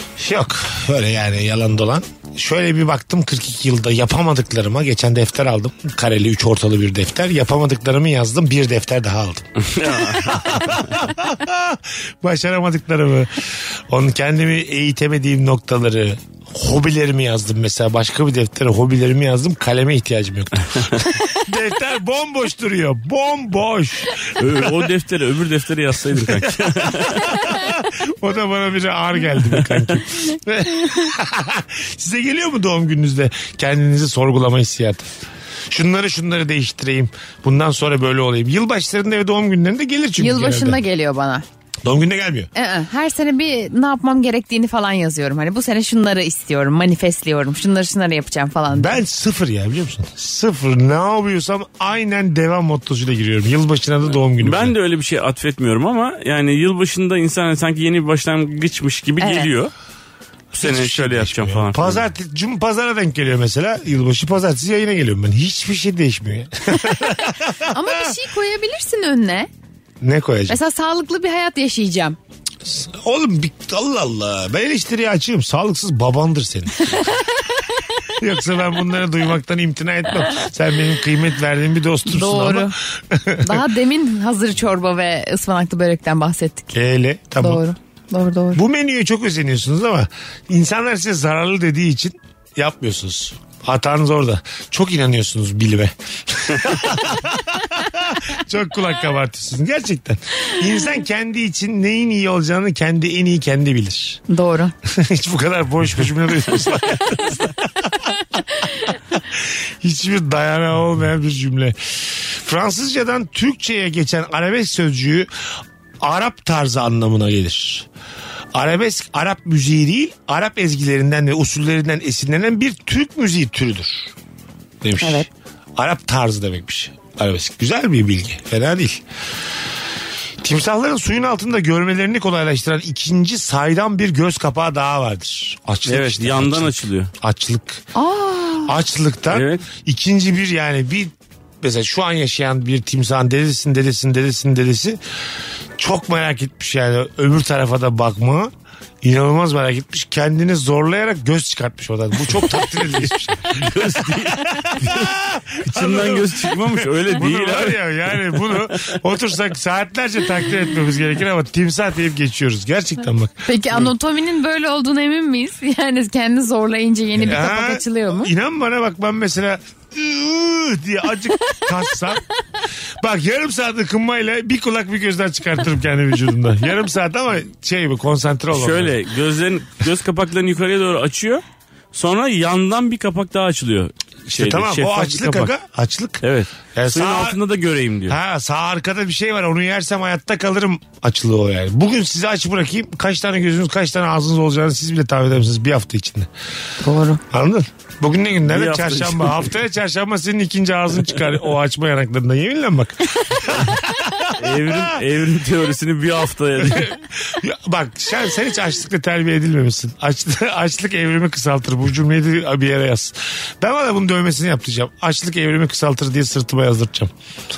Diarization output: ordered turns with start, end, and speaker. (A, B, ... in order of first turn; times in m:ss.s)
0:00.2-0:24.9 A
0:09.6-0:10.8 B
0:24.4-0:27.2 B
0:26.1-0:35.1 A
0:35.7-0:40.8 A
0:40.2-0:41.4 C
0:41.8-0:42.5 A
0:42.5-0:49.0 C
0:48.7-0:54.7 A
0:54.4-0:59.7 B
0:59.2-0:59.5 C
1:00.5-1:02.0 B
1:00.5-1:08.1 A
1:07.7-1:09.5 C
1:10.0-1:10.6 A
1:10.5-1:12.2 C
1:12.6-1:17.0 A
1:16.8-1:17.5 C
1:18.2-1:23.6 A
1:22.0-1:22.8 C
1:23.4-1:26.8 C
1:26.7-1:27.6 A
1:27.4-1:28.6 C
1:28.5-1:44.2 A
1:44.3-1:44.7 C
1:44.8-1:55.3 A
1:56.0-1:57.9 A
1:58.5-2:04.1 A
2:04.8-2:09.0 A
2:05.0-2:05.3 C
2:10.4-2:17.8 A
2:15.9-2:17.1 B
2:17.9-2:18.7 C
2:18.6-2:25.0 A
2:19.3-2:19.6 B
2:25.8-2:28.5 A
2:29.0-2:43.8 A
2:32.8-2:39.0 B
2:43.4-2:48.3 C
2:47.2-2:52.2 A
2:53.0-2:59.0 A
2:58.5-3:05.5 B
3:04.3-3:06.2 A
3:06.2-3:08.2 B
3:06.7-3:07.4 A
3:08.1-3:16.3 A
3:16.8-3:17.2 C
3:17.3-3:25.0 A
3:18.5-3:19.5 B
3:24.3-3:27.0 B
3:26.6-3:37.1 A